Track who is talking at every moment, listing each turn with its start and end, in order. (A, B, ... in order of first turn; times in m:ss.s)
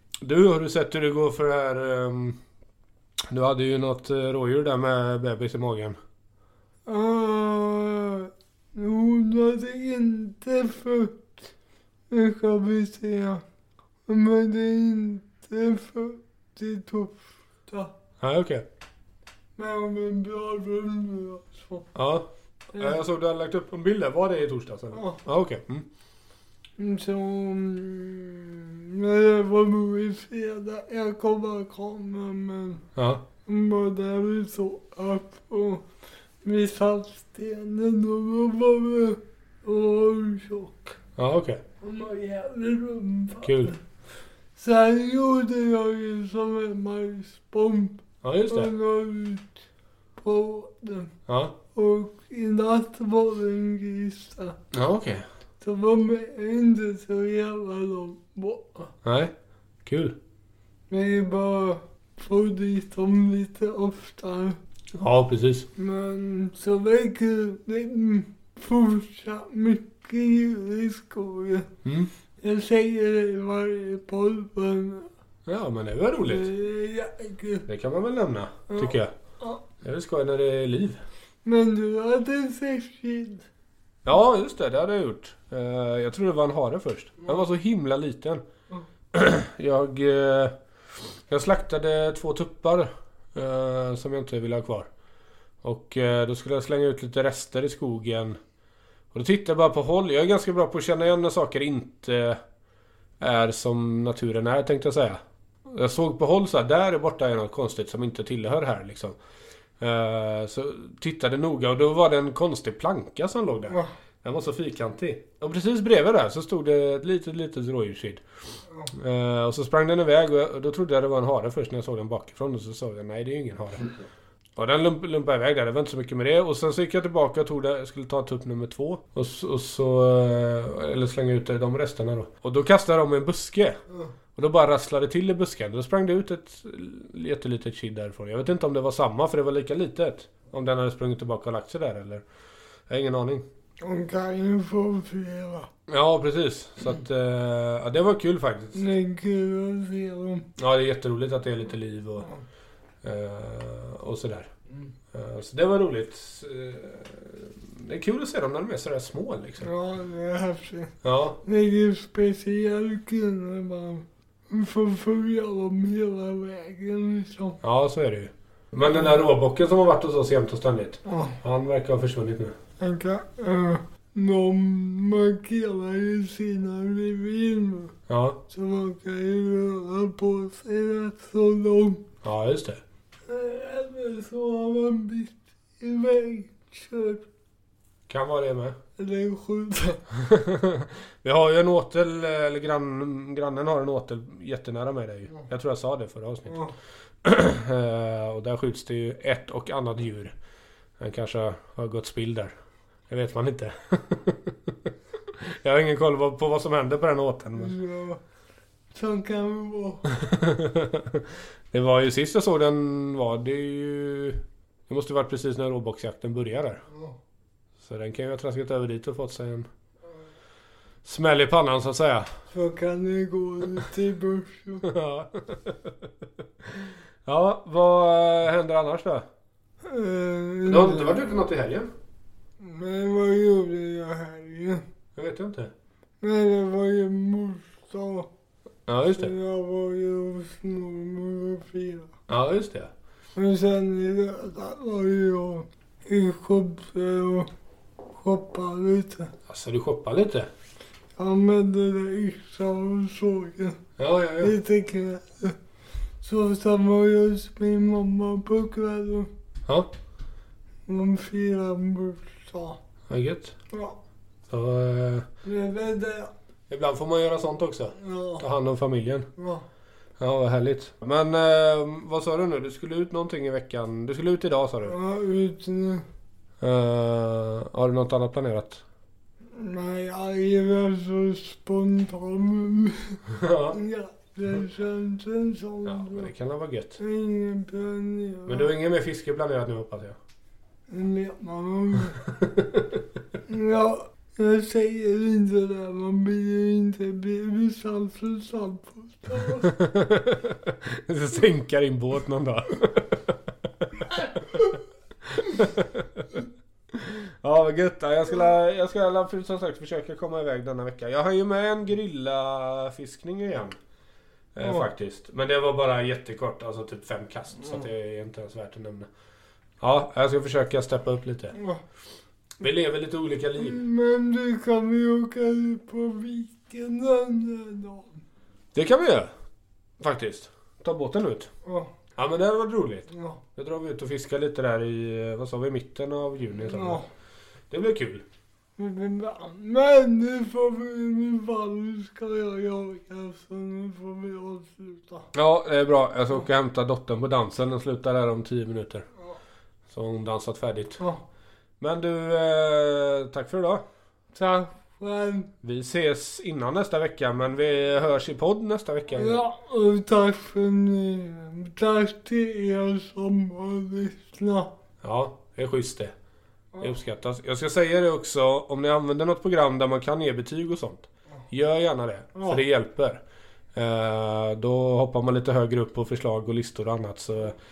0:00.2-0:02.4 A
0:03.3-0:06.0 A
0:06.8-0:11.3 B
0:12.1-0:13.4 B
0:14.1-0:17.9 B
0:18.2-0:18.6 A
0:19.6-0:21.9 B
0:21.9-0:25.9 A
0:22.7-0:23.0 B
0:24.9-0:25.2 B
0:26.8-0:32.8 B
0:33.0-0:33.2 A
0:33.4-0:35.8 B
0:36.4-0:40.9 B
0:41.2-0:41.6 A
0:41.8-0:43.8 B
0:43.4-0:43.7 A
0:44.6-0:49.5 B
0:48.2-0:48.7 A
0:50.2-0:51.1 B
0:51.3-0:51.5 A
0:51.7-0:54.6 B
0:54.7-0:55.2 A
0:55.6-0:58.9 B
0:59.0-0:59.3 A
0:59.8-1:00.2 A
1:00.9-1:04.6 B
1:05.0-1:05.7 A
1:05.8-1:11.7 B
1:11.8-1:12.1 A
1:12.4-1:15.1 B
1:15.4-1:16.5 A
1:16.2-1:17.6 B
1:17.7-1:19.1 A
1:18.7-1:19.6 B
1:19.8-1:21.0 A
1:21.4-1:23.5 B
1:24.0-1:28.4 A
1:29.1-1:30.6 A
1:31.3-1:34.9 A
1:35.6-1:38.4 A
1:39.1-1:42.4 A
1:43.2-1:49.2 A
1:49.8-1:58.2 A
1:58.9-2:03.9 A
2:04.6-2:13.8 A
2:14.4-2:22.2 A
2:22.9-2:23.4 A
2:23.8-2:25.7 B
2:25.9-2:28.9 A
2:28.7-2:30.5 B
2:30.6-2:32.3 A
2:33.0-2:34.5 A
2:35.1-2:39.7 A
2:39.6-2:47.6 B
2:41.0-2:41.4 A
2:47.6-2:52.5 A
2:51.0-2:51.4 B
2:52.8-2:57.9 B
2:58.1-2:58.4 A
2:58.5-3:02.0 B
3:02.2-3:02.8 A
3:03.3-3:07.3 B
3:08.1-3:08.8 A
3:09.0-3:10.0 B
3:10.1-3:16.6 A
3:16.5-3:16.8 B
3:17.2-3:20.3 A
3:21.0-3:22.5 A
3:23.1-3:27.8 A
3:27.6-3:28.2 B
3:28.9-3:30.1 B
3:30.1-3:36.8 A
3:36.9-3:37.2 B
3:37.8-3:39.7 A
3:41.0-3:42.3 A
3:42.5-3:44.9 B
3:44.8-3:46.1 A
3:46.6-3:49.2 A
3:49.8-3:51.2 B
3:50.6-3:51.9 A
3:52.6-3:54.8 B
3:55.2-3:55.7 A
3:56.2-3:58.3 B
3:58.9-3:59.3 A
3:59.1-4:02.1 B
4:02.3-4:02.9 A
4:03.3-4:07.5 B
4:08.1-4:09.3 B
4:09.5-4:10.5 A
4:11.2-4:13.8 B
4:14.0-4:14.5 A
4:14.4-4:15.6 B
4:16.2-4:19.3 B
4:20.9-4:22.8 B
4:23.1-4:23.5 A
4:23.7-4:24.0 B
4:24.5-4:25.2 A
4:25.4-4:26.3 B
4:26.7-4:29.3 A
4:28.0-4:28.4 B
4:29.4-4:29.6 B
4:30.2-4:35.0 A
4:34.8-4:36.0 B
4:36.6-4:38.8 A
4:39.5-4:46.3 B
4:43.3-4:43.8 A
4:45.8-4:47.0 A
4:47.0-4:48.7 B
4:48.5-4:50.2 A
4:50.9-4:52.2 B
4:52.2-4:53.0 A
4:53.4-4:59.8 B
4:59.4-5:13.8 A
5:14.5-5:19.1 A
5:19.8-5:21.6 A
5:21.5-5:21.8 B
5:22.6-5:23.8 A
5:23.6-5:28.2 B
5:28.7-5:29.3 A
5:30.0-5:31.5 A
5:31.6-5:31.9 B
5:32.2-5:37.0 A
5:33.1-5:33.4 B
5:36.7-5:37.1 B
5:37.7-5:38.2 A
5:38.8-5:45.3 B
5:45.3-5:49.0 A
5:49.9-5:51.0 A
5:51.8-5:53.8 A
5:54.3-5:55.5 B
5:55.6-5:59.4 A
5:59.1-6:04.7 B
6:05.0-6:06.1 A
6:06.8-6:13.2 A
6:12.3-6:12.6 B
6:13.7-6:17.6 A